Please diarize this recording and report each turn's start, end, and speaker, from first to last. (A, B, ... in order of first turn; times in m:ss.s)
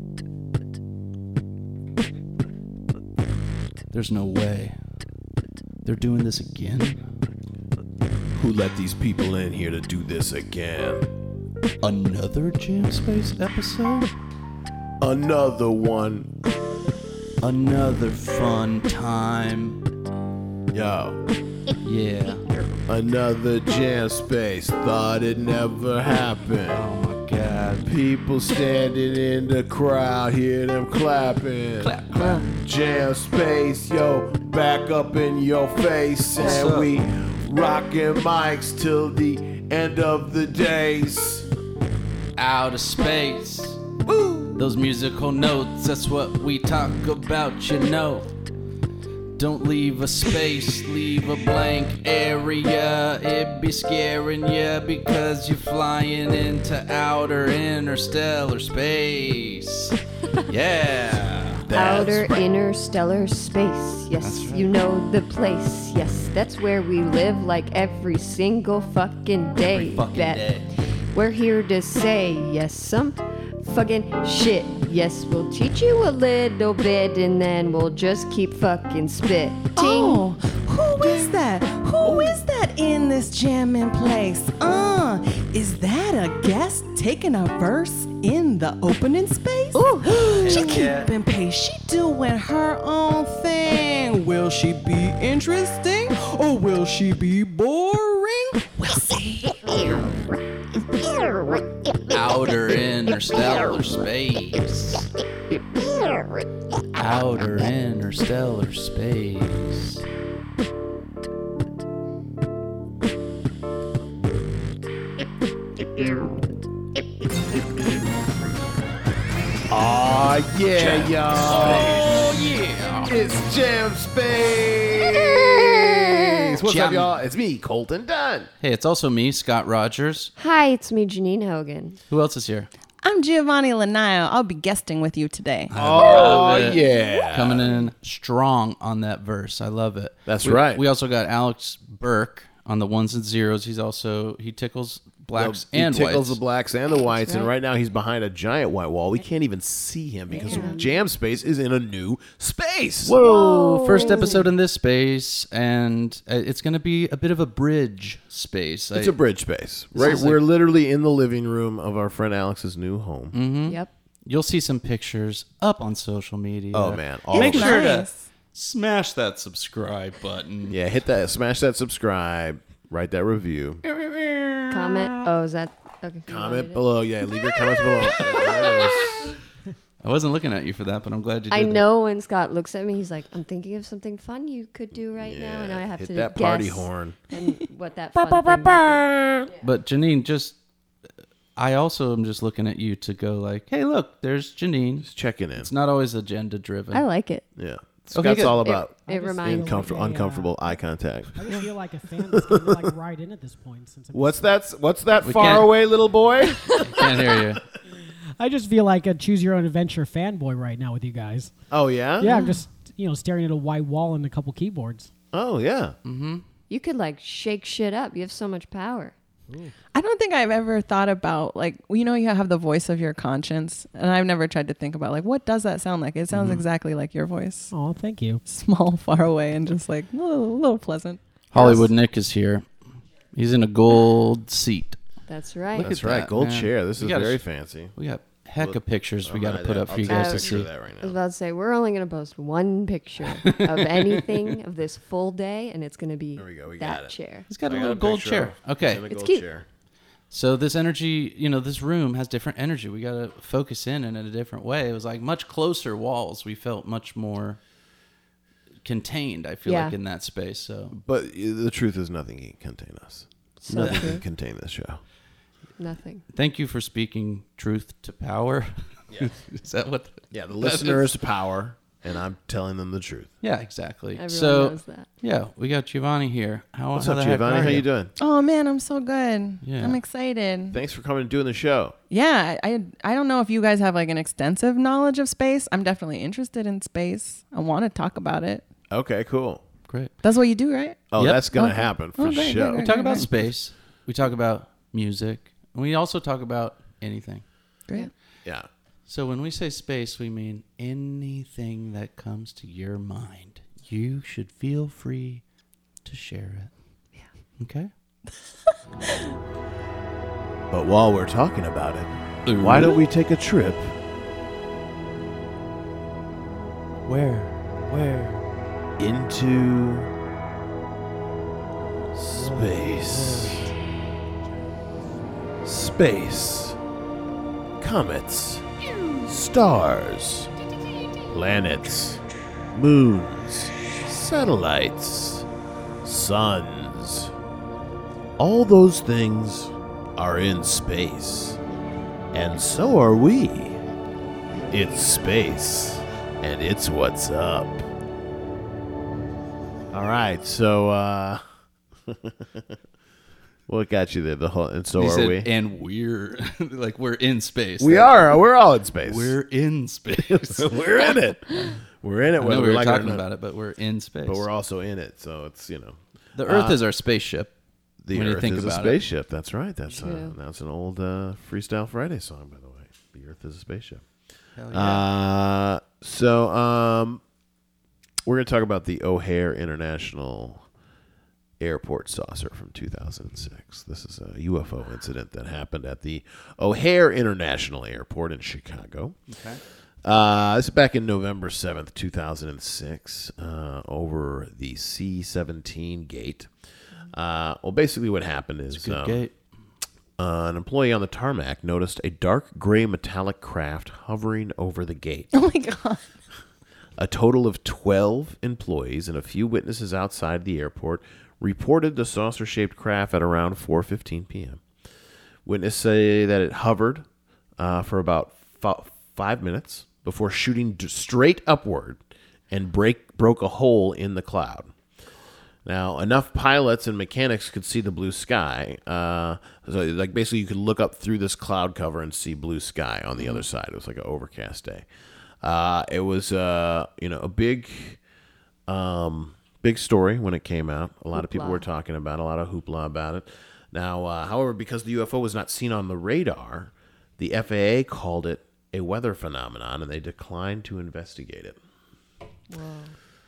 0:03.9-0:04.8 A
0:05.8-0:07.0 A
0:08.4-0:11.1 B
0:11.8-0:14.1 A
0:15.0-0:16.3 B
0:17.4-0:19.8 A
0:20.7-0:21.2 B
0:21.8-0:22.4 A
0:22.9-0:26.8 B
0:26.7-0:27.9 A
0:27.8-0:31.9 B
0:31.8-0:32.5 A
0:32.4-0:41.5 B
0:36.4-0:36.9 A
0:42.4-0:43.8 A
0:44.0-0:44.6 B
0:44.6-0:48.3 A
0:49.4-1:01.6 A
1:01.6-1:02.4 B
1:01.7-1:10.5 C
1:04.2-1:04.7 A
1:09.7-1:10.7 A
1:11.1-1:20.2 C
1:19.8-1:40.0 D
1:21.0-1:21.4 B
1:22.0-1:22.4 B
1:29.7-1:30.8 C
1:30.2-1:31.1 A
1:42.1-1:45.1 A
1:47.0-1:50.0 A
1:59.7-2:02.4 B
2:00.7-2:03.3 A
2:03.0-2:08.5 B
2:05.3-2:06.3 C
2:06.6-2:07.2 A
2:08.6-2:10.3 A
2:10.4-2:12.0 C
2:12.1-2:12.7 A
2:13.0-2:15.7 D
2:15.7-2:26.4 A
2:15.7-2:17.7 B
2:20.3-2:20.8 B
2:25.4-2:33.4 B
2:27.1-2:27.5 C
2:30.3-2:30.9 C
2:33.0-2:39.2 A
2:33.2-2:34.5 C
2:38.9-2:43.3 B
2:40.0-2:40.4 A
2:43.3-2:50.8 A
2:46.7-2:47.9 B
2:47.3-2:48.2 D
2:50.7-2:53.8 B
2:53.8-2:55.2 A
2:54.7-2:56.8 C
2:56.3-2:59.3 B
2:58.0-2:59.1 A
3:00.0-3:01.8 A
3:01.5-3:09.0 C
3:05.2-3:07.2 B
3:08.2-3:10.6 A
3:11.6-3:17.0 A
3:15.0-3:15.7 B
3:16.9-3:17.4 C
3:17.6-3:21.6 B
3:18.1-3:18.6 A
3:18.6-3:20.0 C
3:19.0-3:20.6 E
3:21.4-3:24.5 E
3:22.3-3:22.9 B
3:24.1-3:27.6 B
3:25.2-3:25.7 A
3:26.7-3:27.6 A
3:28.4-3:31.6 E
3:31.7-3:32.4 B
3:32.2-3:35.1 E
3:32.2-3:32.6 D
3:35.3-3:35.9 B
3:36.0-3:36.4 A
3:36.7-3:39.1 C
3:39.9-3:47.7 D
3:46.3-3:46.6 A
3:47.7-3:48.4 E
3:48.4-3:51.8 D
3:51.5-3:52.6 A
3:53.3-3:55.0 A
3:55.3-3:55.9 C
3:55.8-3:57.9 B
3:55.8-3:57.4 A
3:58.0-4:00.7 A
3:58.6-4:01.2 B
4:00.1-4:07.5 C
4:06.4-4:09.6 B
4:07.5-4:09.0 A
4:09.1-4:09.4 C
4:10.3-4:17.6 A
4:18.8-4:20.9 A
4:19.6-4:19.9 C
4:20.9-4:25.0 B
4:23.6-4:24.2 C
4:23.7-4:24.1 A
4:25.8-4:26.2 C
4:26.3-4:31.1 A
4:30.3-4:33.3 B
4:33.4-4:37.8 A
4:34.2-4:35.1 C
4:37.0-4:38.1 B
4:38.2-4:40.8 D
4:39.6-4:40.0 A
4:40.7-4:41.9 B
4:42.1-4:48.6 D
4:48.9-4:49.6 B
4:49.9-4:50.1 A
4:50.2-4:53.3 D
4:51.1-4:52.9 B
4:51.2-4:51.4 A
4:52.8-4:57.4 A
4:59.1-5:05.4 A
5:06.0-5:06.7 A
5:07.6-5:07.9 A
5:10.7-5:14.0 B
5:12.4-5:13.0 A
5:17.0-5:18.4 A
5:19.0-5:20.1 B
5:22.1-5:23.7 B
5:22.3-5:23.7 A
5:25.6-5:26.8 B
5:27.8-5:28.6 B
5:29.2-5:30.5 B
5:31.2-5:32.2 B
5:32.7-5:35.5 B
5:36.0-5:37.3 B
5:38.4-5:41.6 B
5:42.3-5:43.8 B
5:44.7-5:47.8 B
5:49.9-5:51.4 B
5:52.1-5:52.7 B
5:53.7-5:55.5 B
5:55.0-5:58.4 A
5:57.8-5:59.4 B
5:59.0-6:01.1 A
6:00.3-6:03.2 B
6:02.4-6:04.5 A
6:04.2-6:06.8 B
6:06.4-6:07.5 A
6:08.0-6:14.0 B
6:08.1-6:09.0 A
6:09.9-6:10.3 C
6:14.6-6:15.0 A
6:14.7-6:17.2 B
6:18.2-6:20.6 B
6:21.6-6:29.2 B
6:29.3-6:29.6 A
6:30.0-6:36.5 B
6:37.1-6:39.2 B
6:38.7-6:39.3 A
6:40.2-6:45.3 B
6:45.3-6:46.0 D
6:47.0-6:54.6 B
6:55.4-6:57.0 B
6:57.6-7:04.7 B
7:05.6-7:14.8 B
7:15.4-7:18.0 B
7:18.7-7:31.6 B
7:21.1-7:21.7 C
7:32.5-7:32.9 C